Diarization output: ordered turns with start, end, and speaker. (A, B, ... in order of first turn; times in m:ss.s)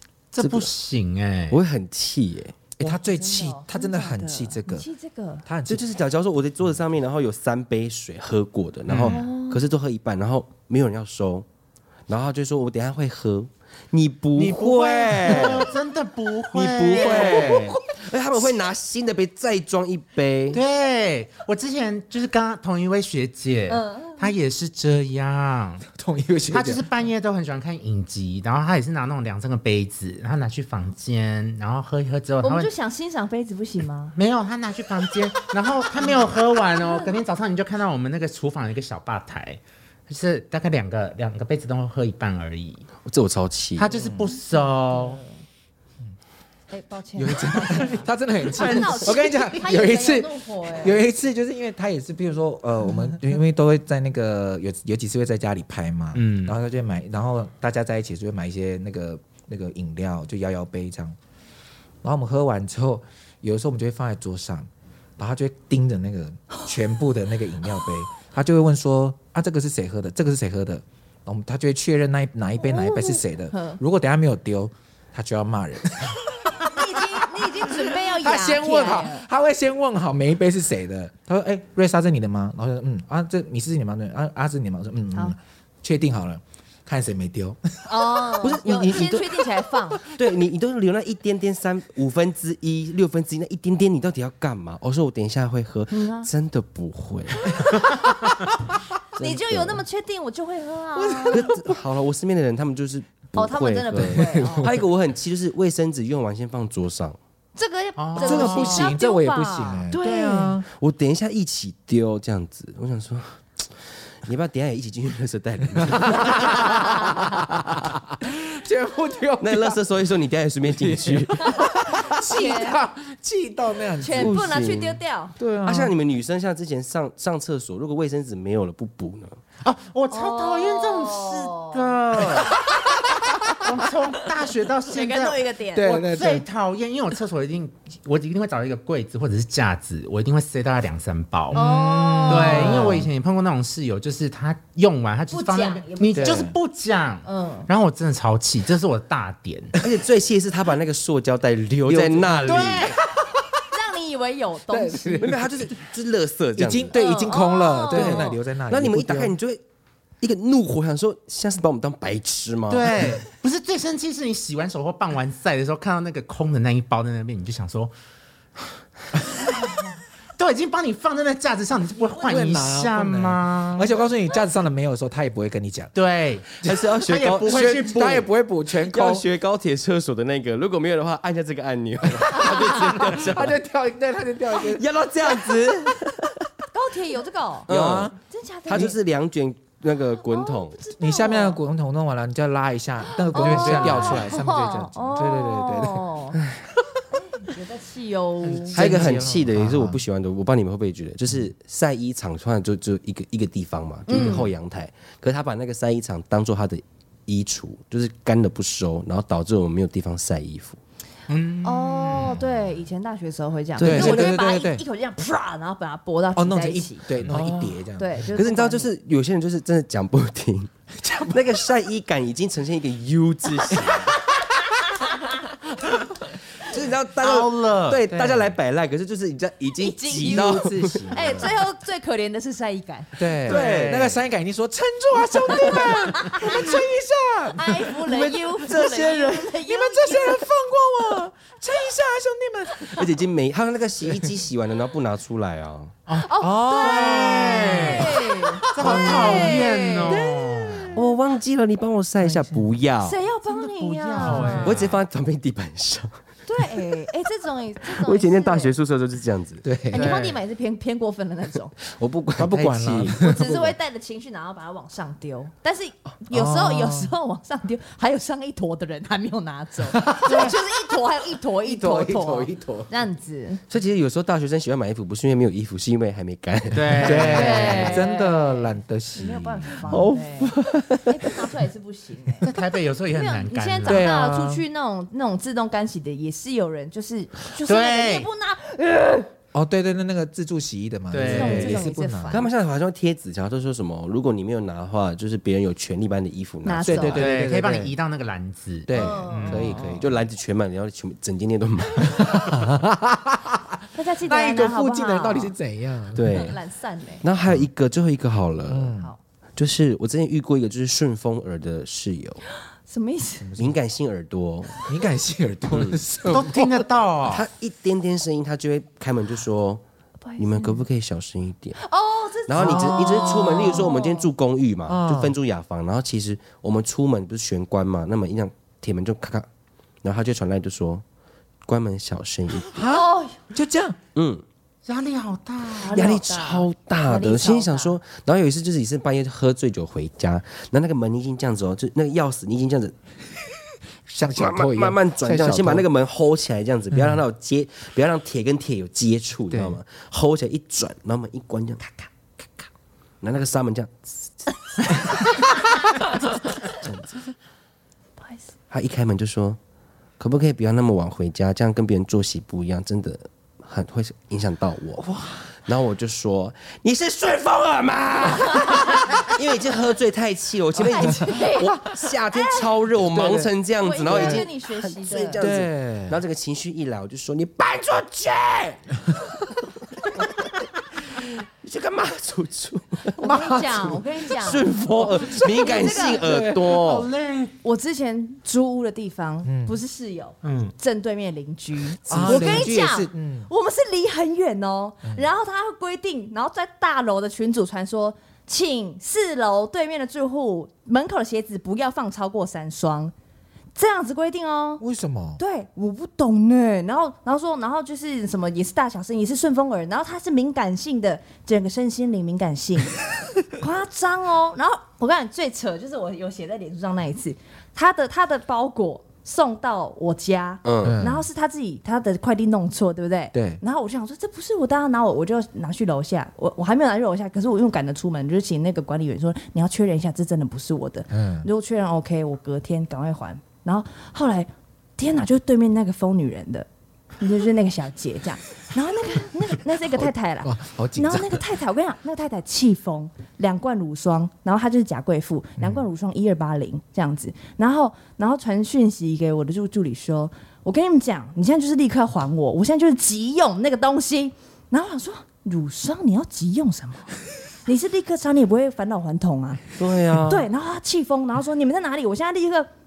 0:00.3-0:01.6 A
0:00.4-0:00.7 B
0:01.5-0:02.6 B
0:02.8-0:04.9 C
0:02.8-0:05.4 D
0:05.4-0:05.8 C
0:05.7-0:11.5 B
0:08.9-0:09.2 A
0:09.0-0:09.6 D
0:12.1-0:15.7 B
0:14.4-0:17.8 A
0:16.5-0:20.6 B
0:16.9-0:17.7 D
0:20.5-0:25.8 A
0:23.7-0:24.3 D
0:25.9-0:26.8 C
0:26.5-0:32.7 A
0:32.4-0:34.2 D
0:34.2-0:42.9 A
0:43.0-0:43.9 B
0:43.8-0:45.2 A
0:44.0-0:44.4 C
0:44.9-0:45.3 D
0:46.7-0:51.0 D
0:47.2-1:01.2 C
0:48.5-0:49.1 A
0:56.2-0:56.6 A
1:02.0-1:28.3 C
1:12.6-1:13.8 D
1:16.5-1:19.2 D
1:27.9-1:30.0 D
1:28.4-1:29.5 B
1:30.1-1:37.6 B
1:35.9-1:36.3 D
1:37.5-1:38.3 D
1:39.2-1:39.8 B
1:39.2-1:41.5 D
1:41.0-1:41.8 C
1:41.3-1:47.2 B
1:43.4-1:44.7 D
1:44.0-1:44.8 C
1:47.6-1:50.6 D
1:48.0-1:48.9 A
1:48.2-1:50.7 C
1:50.7-1:56.9 B
1:55.9-1:59.8 C
1:56.7-1:57.2 D
1:59.4-2:01.6 B
2:00.7-2:04.6 C
2:01.6-2:02.8 D
2:04.0-2:05.4 D
2:04.2-2:05.0 B
2:05.4-2:05.9 C
2:05.6-2:09.4 B
2:09.6-2:12.6 A
2:10.1-2:13.1 D
2:13.6-2:21.6 A
2:14.9-2:15.9 D
2:15.7-2:16.4 C
2:21.5-2:23.1 C
2:21.5-2:23.1 D
2:22.3-2:29.8 A
2:25.3-2:26.5 D
2:26.1-2:26.6 C
2:27.3-2:27.7 D
2:29.8-2:32.9 B
2:31.9-2:33.6 C
2:32.4-2:33.0 A
2:33.6-2:35.4 D
2:34.7-2:35.8 C
2:35.2-2:37.0 B
2:36.6-2:39.3 C
2:36.9-2:38.4 D
2:37.9-2:39.6 B
2:40.2-2:43.2 B
2:42.7-2:47.9 A
2:49.5-2:49.8 A
2:50.4-2:53.9 A
2:52.1-2:55.9 C
2:56.0-2:58.3 A
2:56.6-2:56.9 C
2:56.6-2:57.8 B
2:57.4-2:59.2 C
2:58.8-3:03.6 B
3:02.1-3:04.8 C
3:02.4-3:02.9 D
3:04.6-3:06.5 B
3:06.7-3:07.7 D
3:07.7-3:08.2 B
3:07.7-3:08.2 C
3:08.2-3:08.9 D
3:08.7-3:10.8 B
3:08.7-3:09.0 C
3:10.3-3:11.6 D
3:11.0-3:16.1 C
3:13.2-3:16.4 D
3:13.4-3:14.2 A
3:13.7-3:14.0 B
3:16.4-3:16.7 B
3:17.1-3:18.8 D
3:18.5-3:20.0 C
3:18.7-3:30.8 B
3:24.1-3:24.5 D
3:31.3-3:32.4 A
3:31.6-3:37.0 D
3:32.1-3:32.4 C
3:33.8-3:34.4 B
3:33.8-3:34.8 C
3:36.4-3:38.3 C
3:37.2-3:37.7 A
3:38.0-3:38.9 D
3:38.3-3:40.7 B
3:41.0-3:41.4 C
3:41.3-3:44.1 B
3:44.0-3:45.3 D
3:46.6-3:51.5 B
3:47.2-3:48.0 A
3:48.1-3:48.6 C
3:49.8-3:53.6 D
3:50.1-3:51.6 C
3:53.2-3:58.0 C
3:53.4-3:54.2 B
3:55.5-3:56.8 D
3:57.5-4:00.5 D
3:58.0-3:59.6 B
3:59.6-4:03.1 C
4:02.9-4:05.9 B
4:06.1-4:10.9 A
4:06.1-4:11.0 D
4:06.4-4:09.3 C
4:08.8-4:09.6 B
4:10.9-4:13.2 B
4:12.2-4:12.7 C
4:13.0-4:14.8 D
4:13.5-4:15.0 A
4:14.2-4:14.7 C
4:14.6-4:16.2 B
4:16.5-4:18.8 D
4:17.9-4:19.7 B
4:19.6-4:20.2 C
4:19.9-4:21.7 D
4:19.9-4:20.4 A
4:21.8-4:23.7 B
4:22.4-4:23.7 C
4:23.1-4:33.6 D
4:26.3-4:27.1 C
4:29.9-4:30.6 C
4:31.6-4:32.9 C
4:33.7-4:37.5 B
4:36.7-4:38.1 A
4:37.0-4:40.1 C
4:37.1-4:40.5 D
4:39.9-4:41.4 B
4:41.1-4:42.5 D
4:42.4-4:44.1 A
4:43.1-4:49.3 D
4:43.8-4:44.6 C
4:47.6-4:48.3 A
4:49.5-4:52.5 C
4:51.1-4:51.8 A
4:51.2-4:52.5 D
4:52.3-4:57.3 B
4:56.6-4:57.3 D
4:56.8-4:57.9 C
4:57.2-4:59.8 A
4:58.9-5:00.2 C
4:59.0-5:00.0 D
4:59.8-5:02.3 B
5:02.0-5:06.5 C
5:04.0-5:05.5 D
5:06.2-5:06.6 B
5:06.3-5:07.2 D
5:07.2-5:08.9 B
5:08.7-5:09.1 C
5:09.6-5:12.4 B
5:12.9-5:13.6 D
5:13.4-5:13.8 C
5:13.6-5:14.8 B
5:14.8-5:16.9 C
5:15.7-5:16.0 B
5:16.3-5:17.4 A
5:17.3-5:19.8 B
5:20.2-5:20.8 D
5:20.4-5:21.8 B
5:21.8-5:24.3 D
5:22.4-5:29.5 B
5:22.6-5:23.8 C
5:24.9-5:25.4 C
5:30.0-5:31.0 B
5:31.7-5:32.7 B
5:32.7-5:34.0 C
5:32.8-5:33.4 D
5:34.2-5:34.4 B
5:34.8-5:36.1 A
5:35.8-5:38.0 D
5:35.9-5:43.0 B
5:44.1-5:45.9 C
5:44.3-5:51.8 B
5:46.9-5:47.2 C
5:49.5-5:49.8 C
5:51.8-5:52.1 D
5:53.2-5:54.3 B
5:58.2-5:58.5 D
5:58.7-5:59.6 B
6:00.2-6:18.9 B
6:05.0-6:05.5 C
6:10.8-6:12.7 D
6:13.8-6:15.5 D
6:15.4-6:16.2 C
6:21.1-6:23.2 B
6:23.2-6:26.3 D
6:23.2-6:24.0 C
6:23.8-6:27.1 B
6:26.3-6:27.6 A
6:27.6-6:43.1 D
6:29.4-6:29.8 C
6:30.4-6:30.7 A
6:32.1-6:33.5 C
6:32.1-6:32.5 B
6:43.8-6:44.8 D
6:44.8-6:45.4 C
6:45.4-7:16.7 D
7:00.6-7:01.0 B
7:00.8-7:01.3 C
7:03.3-7:03.6 C
7:11.1-7:11.5 C
7:17.2-7:39.7 D
7:19.9-7:21.4 C
7:25.6-7:25.8 C
7:39.8-7:40.5 B
7:40.2-7:42.7 D